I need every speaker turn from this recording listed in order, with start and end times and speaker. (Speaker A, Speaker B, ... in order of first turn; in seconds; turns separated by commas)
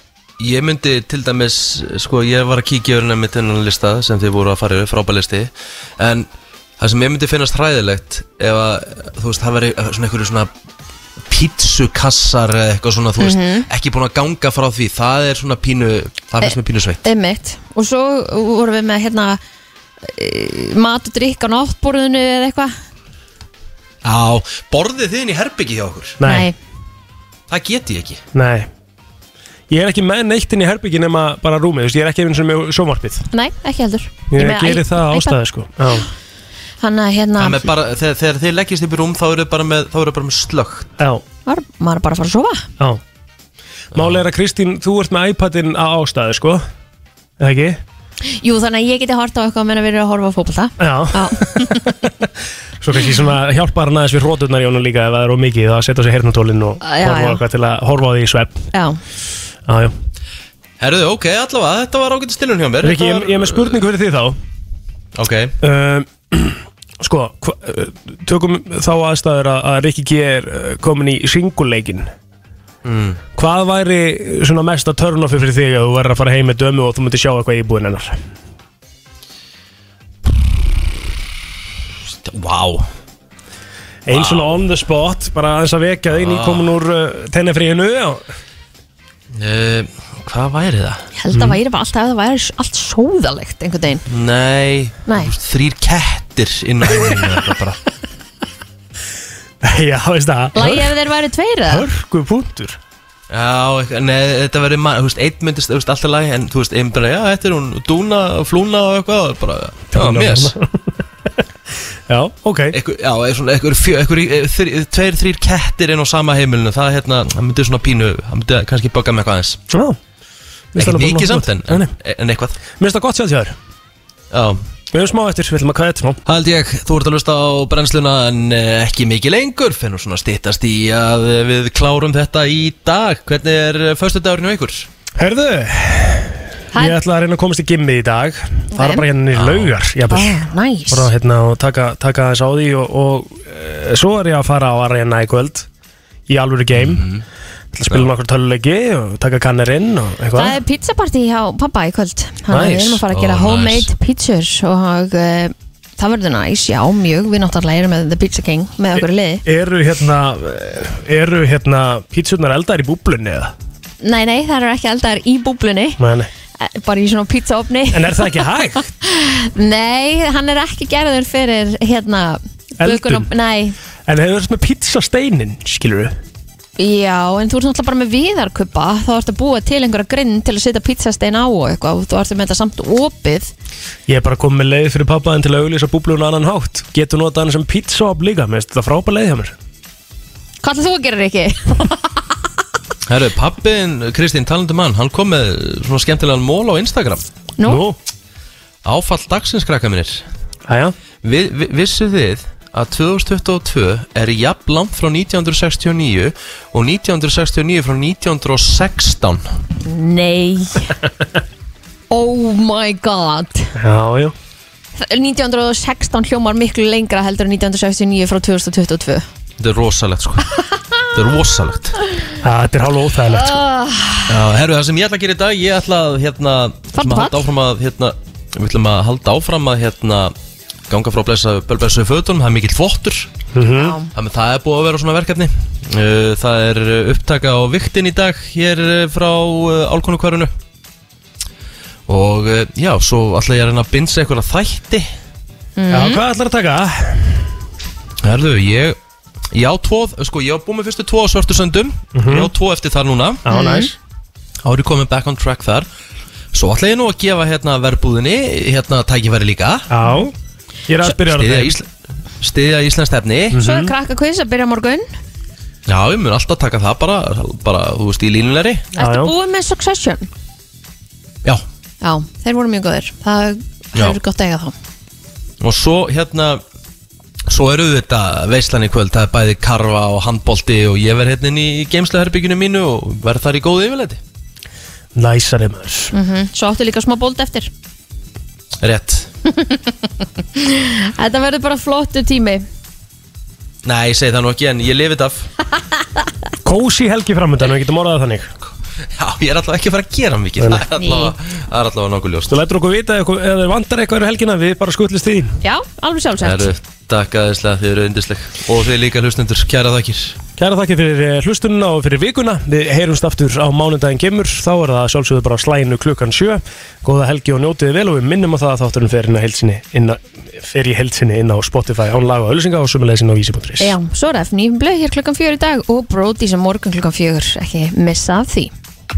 Speaker A: 0.4-6.3, Speaker A: 6.8-10.5, Speaker A: 11.3-17.0, Speaker B: 13.2-13.7, Speaker B: 16.4-19.4, Speaker B: 20.0-22.7, Speaker A: 24.0-26.2, Speaker C: 26.2-26.5, Speaker B: 26.2-26.6, Speaker A: 27.5-28.2, Speaker C: 28.3-28.7, Speaker C: 29.7-33.3, Speaker B: 33.3-35.4, Speaker C: 34.3-36.1, Speaker B: 36.8-37.7, Speaker A: 37.4-40.9, Speaker B: 41.5-42.7, Speaker A: 43.9-44.2, Speaker C: 43.9-46.6, Speaker C: 47.4-47.8, Speaker B: 48.2-52.0, Speaker C: 50.8-58.7, Speaker B: 56.8-57.4, Speaker B: 58.7-59.0, Speaker C: 59.7-59.9, Speaker A: 60.8-63.8, Speaker C: 62.8-64.4, Speaker A: 65.1-65.5, Speaker C: 65.6-72.1, Speaker A: 72.8-73.2, Speaker C: 73.3-78.2, Speaker A: 82.2-82.9, Speaker C: 84.0-88.2, Speaker A: 84.1-84.5, Speaker A: 86.1-86.7, Speaker A: 89.3-91.1, Speaker B: 91.2-94.0, Speaker C: 91.3-91.6, Speaker A: 94.1-97.8, Speaker B: 95.1-95.3, Speaker C: 99.6-100.9, Speaker B: 100.5-101.9, Speaker C: 101.7-102.8, Speaker A: 103.3-110.5, Speaker C: 109.9-110.7, Speaker C: 112.1-112.8, Speaker A: 112.7-119.6, Speaker C: 119.7-120.0, Speaker C: 120.7-121.9, Speaker A: 120.8-122.6, Speaker C: 122.8-123.5, Speaker A: 124.3-124.6, Speaker C: 124.9-126.2, Speaker A: 126.2-134.9, Speaker C: 135.2-145.7, Speaker B: 136.7-137.0, Speaker B: 138.7-139.0, Speaker A: 139.3-139.7, Speaker B: 140.1-141.1, Speaker C: 146.3-147.0, Speaker A: 146.7-147.2, Speaker C: 147.7-150.6, Speaker B: 150.3-159.4, Speaker C: 152.5-153.0, Speaker A: 153.1-153.9, Speaker C: 159.4-163.5, Speaker B: 164.0-166.0, Speaker C: 166.0-166.3, Speaker B: 166.6-173.8, Speaker C: 167.9-168.9, Speaker C: 172.8-173.3, Speaker C: 174.1-176.1, Speaker B: 176.8-183.5, Speaker C: 184.1-189.5, Speaker B: 190.6-192.2, Speaker A: 193.1-197.2, Speaker B: 197.6-197.8, Speaker C: 197.6-198.0, Speaker A: 198.8-200.2, Speaker C: 200.7-200.9, Speaker A: 201.2-209.5, Speaker B: 209.8-210.9, Speaker B: 212.1-213.7, Speaker C: 213.8-214.3, Speaker B: 214.9-219.2, Speaker A: 219.6-221.9, Speaker C: 222.4-223.6, Speaker B: 223.3-224.3, Speaker A: 224.3-230.3, Speaker B: 226.9-227.4, Speaker A: 230.9-233.3, Speaker C: 233.5-234.0, Speaker B: 233.8-234.1, Speaker A: 234.1-240.5, Speaker A: 242.1-245.1, Speaker B: 245.8-246.2, Speaker C: 245.9-247.5, Speaker A: 248.2-249.0, Speaker A: 249.5-253.4, Speaker C: 252.1-252.5, Speaker C: 253.4-253.9, Speaker B: 253.5-253.9, Speaker A: 254.6-255.9, Speaker A: 256.5-259.9, Speaker C: 259.9-260.3, Speaker B: 260.0-260.3, Speaker C: 260.9-261.7, Speaker A: 261.0-261.9, Speaker A: 262.4-263.6, Speaker C: 263.5-263.9, Speaker B: 263.5-265.1, Speaker A: 265.9-268.9, Speaker B: 268.9-270.3, Speaker C: 269.0-269.3, Speaker B: 272.0-274.7, Speaker A: 275.6-276.6, Speaker A: 277.5-284.2, Speaker C: 285.1-286.1, Speaker B: 286.1-287.7, Speaker A: 288.8-289.3, Speaker B: 289.5-289.9, Speaker B: 290.5-292.6, Speaker A: 293.8-295.5, Speaker C: 296.6-298.5, Speaker A: 299.2-302.6, Speaker C: 300.6-300.9, Speaker B: 301.0-301.3, Speaker C: 302.5-305.6, Speaker B: 305.6-306.7, Speaker A: 306.4-310.4, Speaker C: 310.6-323.9, Speaker B: 323.8-328.7